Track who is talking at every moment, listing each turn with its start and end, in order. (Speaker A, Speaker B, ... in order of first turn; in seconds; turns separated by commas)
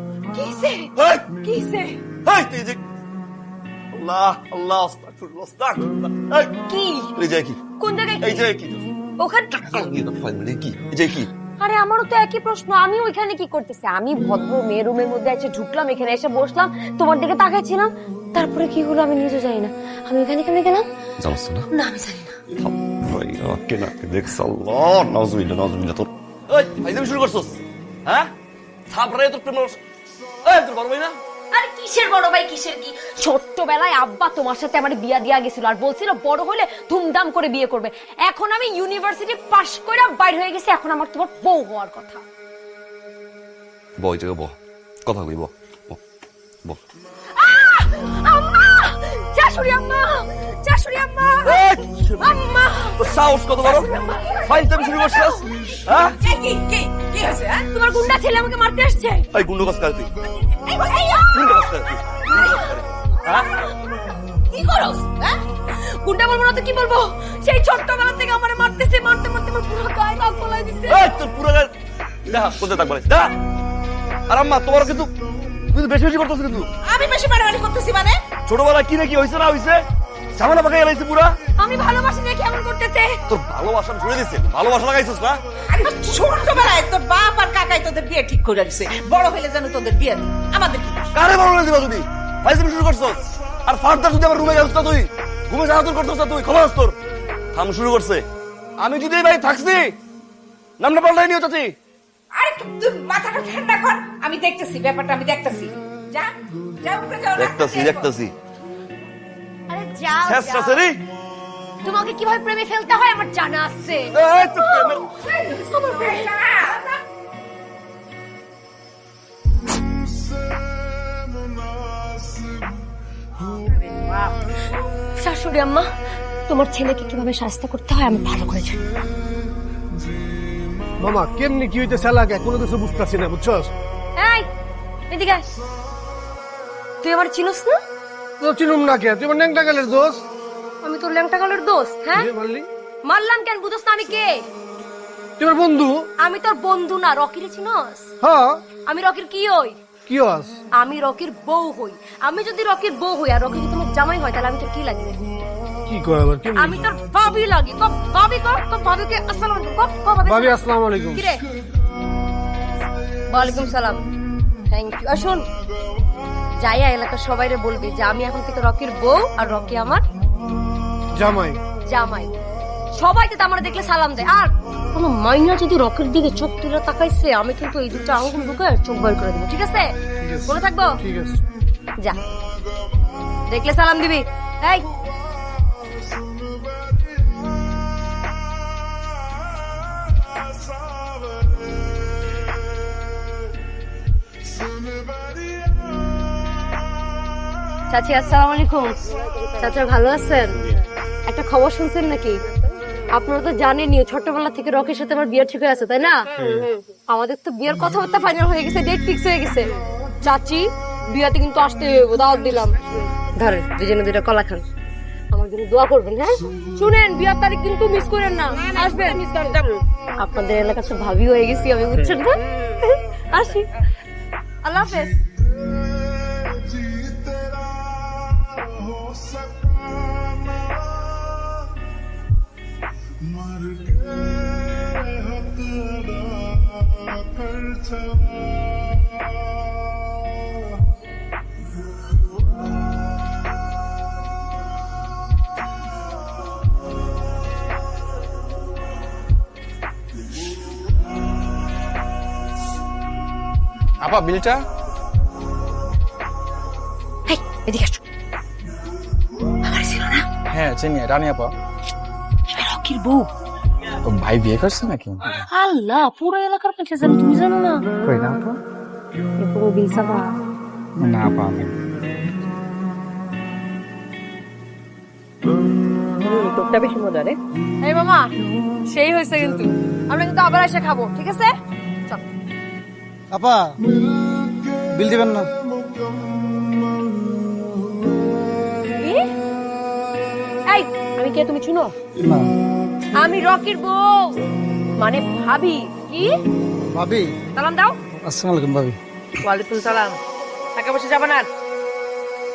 Speaker A: 0.3-0.9, Speaker B: 1.0-1.2, Speaker A: 1.4-2.0, Speaker B: 2.2-2.8, Speaker B: 3.9-6.5, Speaker A: 6.7-7.1, Speaker B: 7.1-7.6, Speaker A: 7.8-8.4, Speaker B: 8.2-8.9, Speaker A: 9.2-9.8, Speaker B: 9.6-11.3, Speaker A: 11.6-20.9, Speaker B: 21.2-21.7, Speaker A: 21.7-22.4, Speaker B: 22.6-28.3, Speaker B: 28.9-29.8, Speaker B: 30.4-31.2, Speaker A: 31.5-42.2, Speaker B: 44.0-46.0, Speaker A: 47.3-55.8, Speaker B: 51.4-52.4, Speaker B: 53.0-53.9, Speaker B: 54.4-56.2, Speaker C: 56.2-57.7, Speaker A: 57.7-59.3, Speaker B: 59.3-60.1, Speaker A: 60.7-61.7, Speaker B: 61.3-63.5, Speaker A: 62.2-63.8, Speaker C: 64.5-65.3, Speaker A: 66.0-71.1, Speaker B: 70.9-71.7, Speaker B: 72.3-73.3, Speaker B: 74.3-75.1, Speaker B: 75.7-76.7, Speaker C: 76.8-78.2, Speaker B: 78.5-79.8, Speaker B: 80.3-81.4, Speaker A: 81.6-83.2, Speaker B: 83.3-85.4, Speaker C: 85.7-91.1, Speaker B: 91.1-97.0, Speaker B: 97.5-98.2, Speaker B: 98.8-99.9, Speaker B: 100.8-101.7, Speaker C: 102.3-108.1, Speaker B: 107.3-108.3, Speaker A: 109.7-110.8, Speaker B: 110.2-111.0, Speaker A: 111.8-114.1, Speaker B: 114.1-115.2, Speaker C: 115.2-117.0, Speaker C: 123.7-124.3, Speaker A: 125.2-125.9, Speaker A: 126.5-128.8, Speaker D: 131.0-133.7, Speaker A: 134.2-134.5, Speaker A: 135.1-135.5, Speaker A: 137.0-137.8, Speaker D: 138.4-140.2, Speaker A: 140.8-142.3, Speaker D: 142.2-142.7, Speaker A: 143.1-144.3, Speaker D: 145.4-146.0, Speaker A: 146.2-148.1, Speaker D: 148.2-148.6, Speaker A: 148.9-149.8, Speaker D: 150.1-150.5, Speaker A: 150.8-155.2, Speaker D: 155.9-156.8, Speaker A: 156.6-160.6, Speaker D: 160.2-161.3, Speaker A: 161.1-161.4, Speaker A: 163.3-164.0, Speaker A: 164.7-165.4, Speaker A: 166.6-170.0, Speaker D: 171.1-171.6, Speaker A: 171.9-172.3, Speaker A: 172.9-179.9, Speaker D: 180.2-181.4, Speaker A: 180.5-180.9, Speaker A: 183.5-184.8, Speaker A: 197.9-200.6, Speaker A: 201.3-202.4, Speaker A: 203.1-209.7, Speaker A: 210.2-212.8, Speaker A: 213.4-214.7, Speaker A: 215.3-219.6, Speaker A: 220.2-223.7, Speaker A: 224.6-225.2, Speaker E: 254.0-254.6, Speaker A: 257.3-258.0, Speaker A: 259.6-260.2, Speaker E: 260.5-261.5, Speaker A: 262.5-263.3, Speaker E: 264.1-265.4, Speaker A: 265.5-267.9, Speaker E: 268.1-268.4, Speaker F: 268.2-268.5, Speaker A: 269.4-270.3, Speaker E: 271.0-271.7, Speaker F: 271.1-271.6, Speaker A: 276.2-278.3, Speaker A: 278.9-281.5, Speaker F: 283.3-283.8, Speaker F: 284.9-285.5, Speaker A: 289.0-289.2, Speaker A: 290.7-291.9, Speaker F: 292.2-292.5, Speaker A: 293.2-294.4, Speaker A: 295.0-296.4, Speaker F: 296.9-297.3, Speaker A: 297.6-297.9, Speaker F: 298.2-299.0, Speaker A: 299.4-300.2, Speaker A: 300.8-301.4